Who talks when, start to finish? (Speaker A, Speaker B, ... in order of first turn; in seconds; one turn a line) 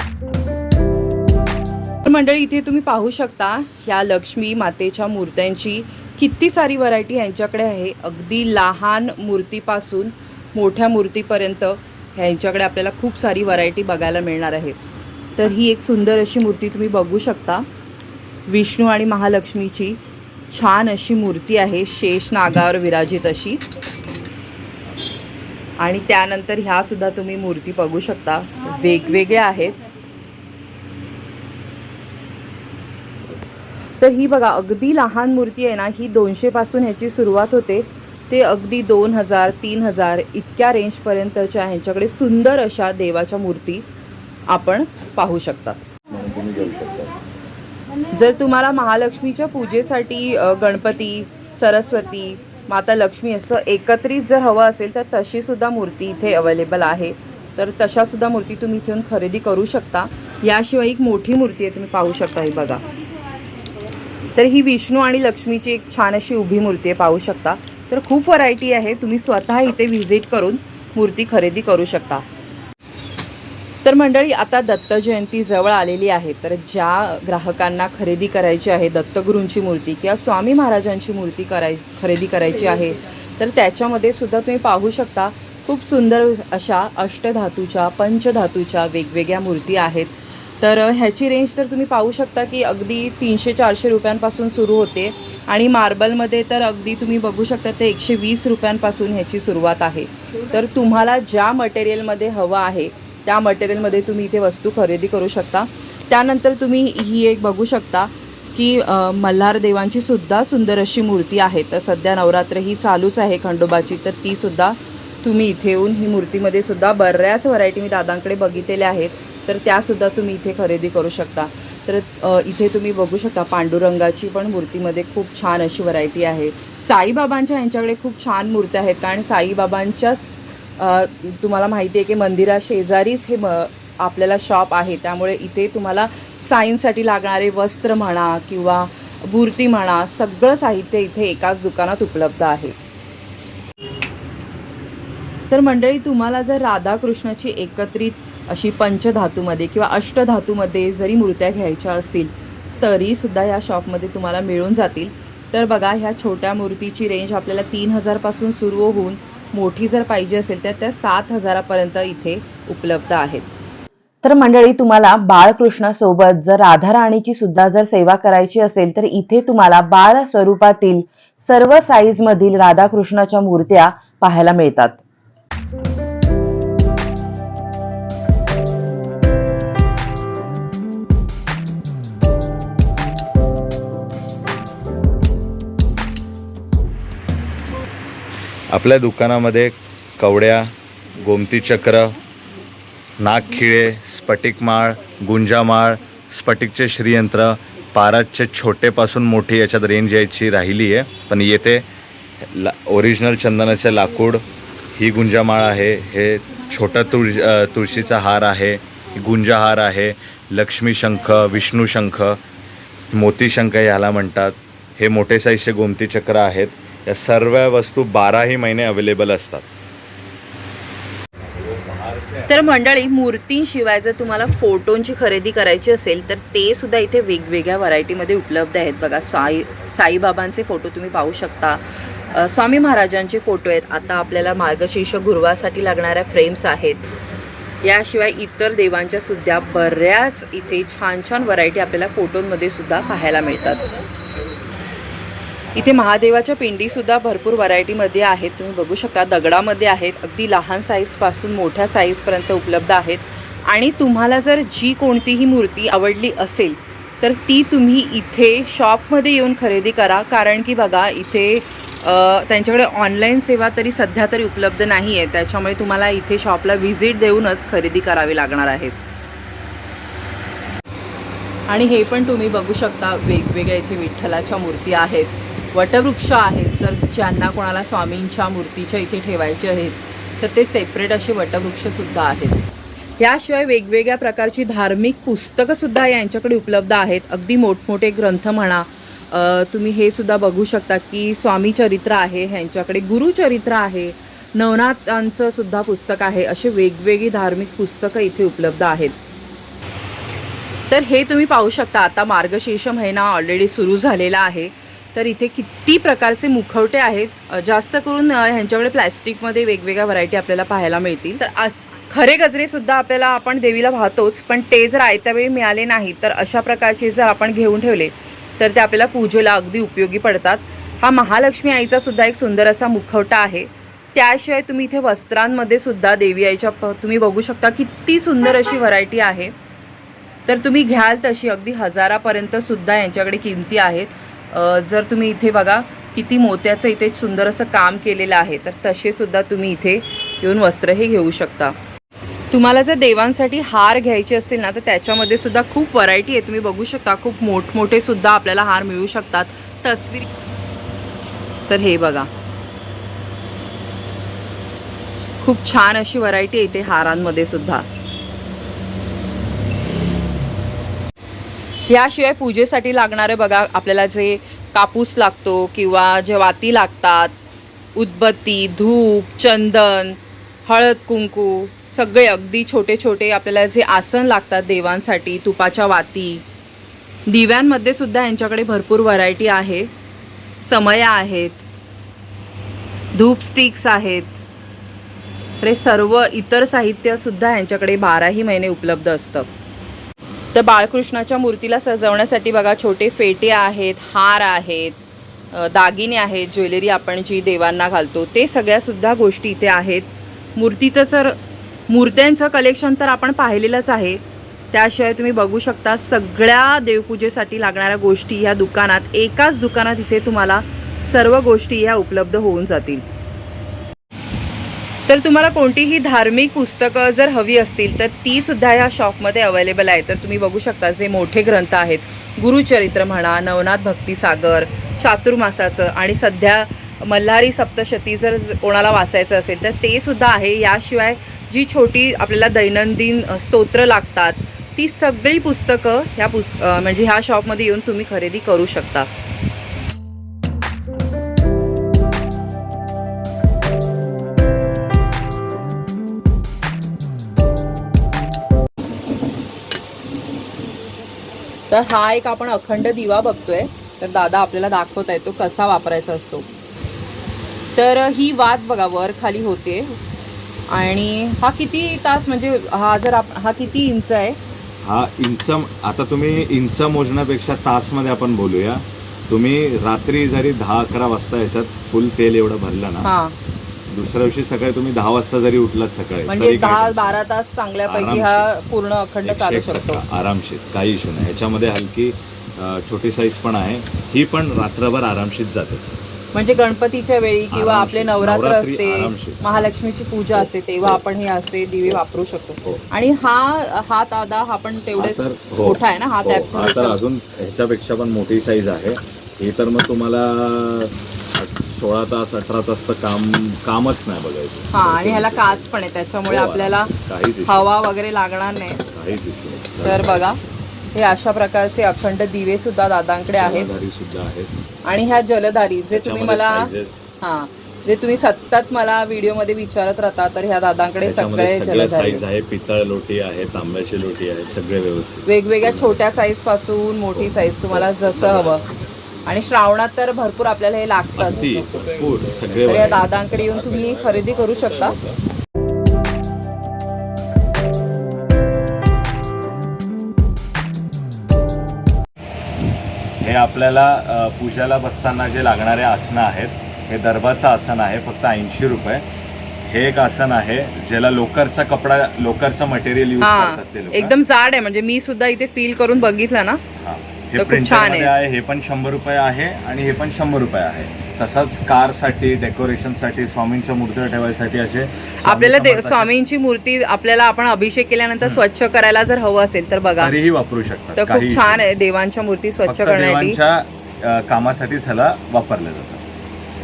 Speaker A: 2.0-14.8
Speaker A: 15.4-17.6
Speaker A: 18.5-20.0
Speaker A: 20.5-23.6
Speaker A: 25.8-29.8
Speaker A: 34.0-43.8
Speaker A: 44.5-45.8
Speaker A: 46.5-47.0
Speaker A: 48.1-62.8
Speaker A: 64.3-72.2
Speaker A: 73.8-142.8
Speaker A: 145.5-163.5
Speaker B: 164.2-175.0
Speaker C: 188.7-192.2
Speaker C: 193.2-201.8
Speaker C: 202.5-204.4
Speaker C: 204.9-212.4
Speaker C: 213.1-219.6
Speaker C: 221.6-222.5
Speaker A: 222.5-231.8
Speaker A: 232.3-237.0
Speaker A: 237.8-243.8
Speaker A: 245.7-269.0
Speaker A: 271.7-282.6
Speaker A: 283.2-299.1
Speaker A: 300.9-329.5
Speaker A: 330.4-341.7
Speaker A: 342.5-350.3
Speaker A: 351.7-352.3
Speaker A: 355.4-357.8
Speaker A: 361.9-367.3
Speaker A: 367.9-376.4
Speaker A: 377.3-379.9
Speaker A: 380.6-381.6
Speaker A: 383.1-384.4
Speaker A: 385.6-389.5
Speaker A: 390.5-395.0
Speaker A: 395.5-401.4
Speaker A: 401.9-404.2
Speaker A: 404.7-413.0
Speaker A: 415.1-439.1
Speaker A: 451.7-456.4
Speaker A: 457.8-460.0
Speaker A: 460.7-464.4
Speaker C: 464.8-473.1
Speaker A: 473.0-473.3
Speaker C: 473.9-477.2
Speaker A: 476.3-480.0
Speaker C: 477.9-478.5
Speaker C: 479.2-485.8
Speaker A: 486.3-497.0
Speaker C: 487.5-489.6
Speaker C: 490.3-491.0
Speaker C: 495.0-505.7
Speaker A: 504.7-506.9
Speaker C: 506.2-507.7
Speaker A: 507.4-508.8
Speaker C: 508.9-510.4
Speaker A: 509.8-510.4
Speaker A: 510.9-513.7
Speaker C: 513.4-514.5
Speaker A: 514.8-522.2
Speaker C: 515.9-517.0
Speaker C: 521.0-526.0
Speaker A: 525.2-528.6
Speaker C: 527.1-528.5
Speaker A: 529.3-531.5
Speaker C: 531.2-533.1
Speaker A: 532.6-535.0
Speaker C: 543.2-549.0
Speaker C: 549.7-554.1
Speaker A: 553.2-556.6
Speaker C: 556.8-566.1
Speaker A: 557.4-558.1
Speaker A: 565.2-570.1
Speaker C: 570.0-571.6
Speaker A: 571.0-573.4
Speaker C: 572.6-576.0